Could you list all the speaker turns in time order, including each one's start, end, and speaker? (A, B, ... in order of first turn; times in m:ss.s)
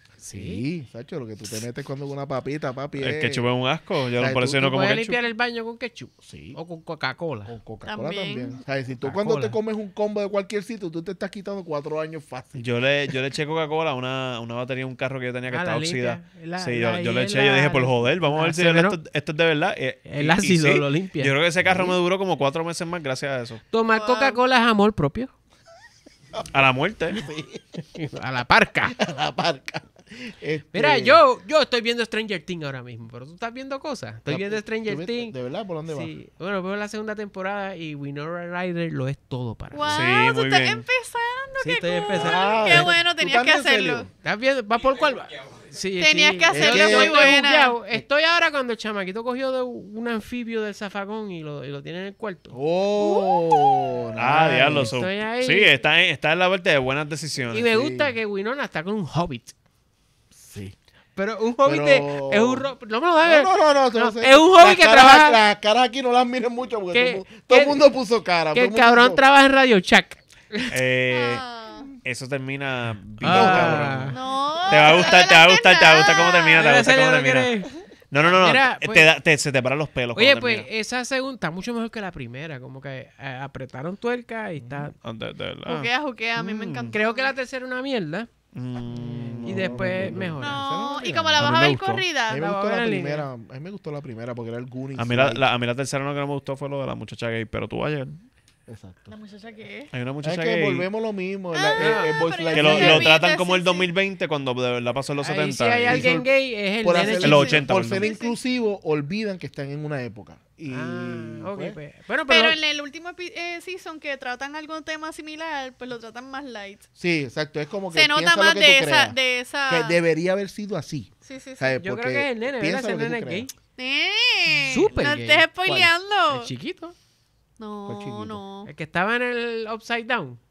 0:00.2-0:00.6 A
0:00.3-0:03.4 B
0:03.0-0:05.2 C
0:04.2-0:04.7 B
0:04.6-0:07.5 A
0:06.2-0:06.6 B
0:07.5-0:12.7 B
0:07.9-0:08.6 D
0:09.0-0:09.6 A
0:12.6-0:23.6 C
0:15.5-0:19.0 A
0:20.1-0:21.3 A
0:21.6-0:22.0 B
0:23.7-0:25.3 A
0:23.9-0:24.4 D
0:26.5-0:27.2 C
0:27.1-0:27.8 B
0:28.0-0:29.0 A
0:29.0-0:31.2 B
0:30.7-0:35.3 A
0:34.3-0:36.1 B
0:35.9-0:40.0 A
0:39.7-0:44.1 D
0:39.8-0:40.8 C
0:41.6-0:43.0 A
0:42.1-0:44.1 B
0:44.2-0:52.6 A
0:46.0-0:47.8 D
0:46.5-0:47.3 B
0:52.5-0:54.9 B
0:53.0-0:53.8 D
0:54.2-0:57.7 C
0:54.7-0:55.7 A
0:57.5-0:59.5 A
0:57.7-0:58.1 B
1:00.3-1:00.8 B
1:01.2-1:05.4 A
1:01.6-1:02.7 B
1:03.2-1:09.2 B
1:06.9-1:07.8 A
1:08.5-1:10.7 A
1:10.7-1:11.5 C
1:11.1-1:11.9 D
1:12.0-1:17.5 C
1:13.2-1:14.0 B
1:13.2-1:14.2 A
1:14.1-1:16.6 D
1:16.6-1:19.1 A
1:18.1-1:20.7 C
1:20.1-1:25.0 A
1:24.6-1:24.9 B
1:25.0-1:27.0 C
1:25.6-1:27.3 D
1:26.9-1:28.3 A
1:28.5-1:30.2 C
1:28.9-1:31.5 B
1:29.4-1:30.6 A
1:30.4-1:32.5 D
1:31.4-1:32.0 C
1:32.3-1:35.4 B
1:32.3-1:33.3 A
1:35.0-1:38.2 C
1:38.7-1:39.1 B
1:39.1-1:39.9 D
1:39.9-1:40.9 C
1:40.2-1:43.1 B
1:41.5-1:43.9 D
1:41.8-1:42.2 A
1:42.5-1:46.1 C
1:45.2-1:47.4 A
1:45.8-1:51.8 B
1:47.0-1:48.3 D
1:47.2-1:48.1 C
1:50.7-1:52.6 A
1:52.3-1:56.8 D
1:57.0-2:03.5 B
1:57.9-2:00.0 D
2:01.2-2:01.8 D
2:01.8-2:03.5 A
2:03.8-2:06.5 D
2:04.6-2:05.5 A
2:05.6-2:05.9 B
2:06.3-2:07.0 A
2:07.6-2:08.7 D
2:07.9-2:08.4 B
2:08.6-2:10.4 A